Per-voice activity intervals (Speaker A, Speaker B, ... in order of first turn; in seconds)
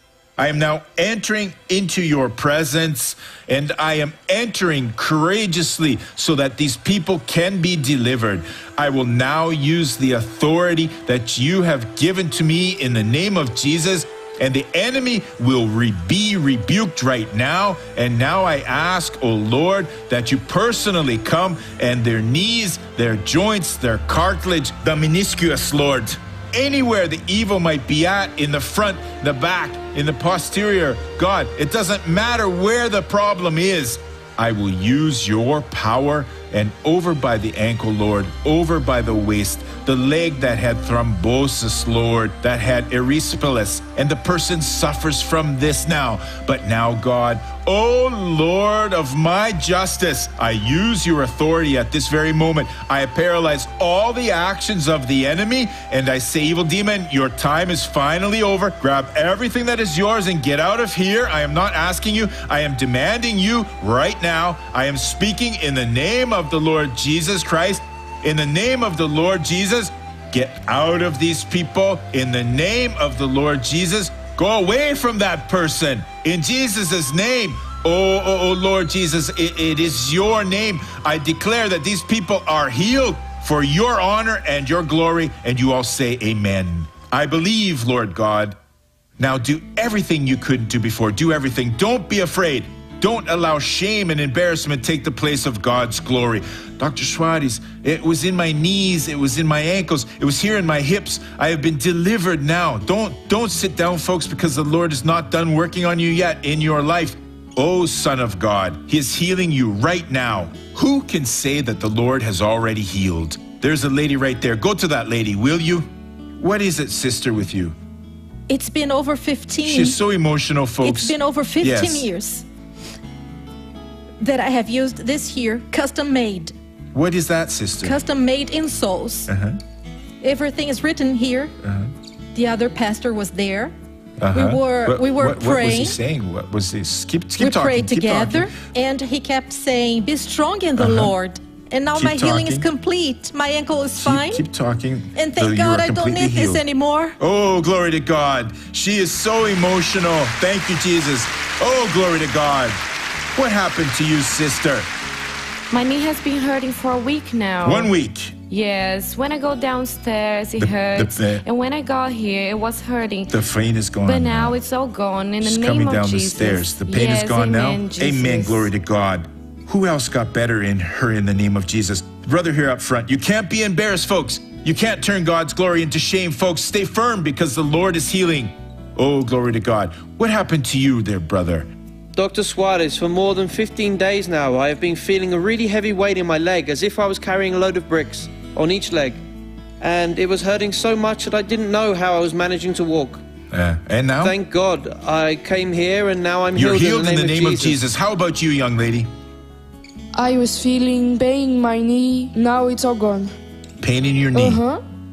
Speaker A: 0.4-88.5, 89.2-115.9, 116.4-117.8, 119.6-122.0, 126.9-128.0, 129.3-129.6, 131.6-131.9, 134.2-138.5, 140.8-141.1, 141.9-142.7, 144.0-146.6, 147.2-152.8, 153.3-154.9, 157.6-158.3, 160.6-161.4, 163.3-164.6, 165.4-181.7, 193.5-194.3, 196.5-199.1, 203.8-204.6
Speaker B: 118.5-120.0, 120.8-122.4, 124.2-126.5, 127.8-129.3, 130.2-131.5, 132.3-133.7, 134.3-135.9, 137.4-144.4, 145.1-147.2
Speaker C: 155.7-157.9, 158.5-163.3, 164.0-168.7
Speaker D: 182.2-189.2, 189.8-193.2, 194.2-197.8
Speaker E: 200.1-203.3, 204.3-204.8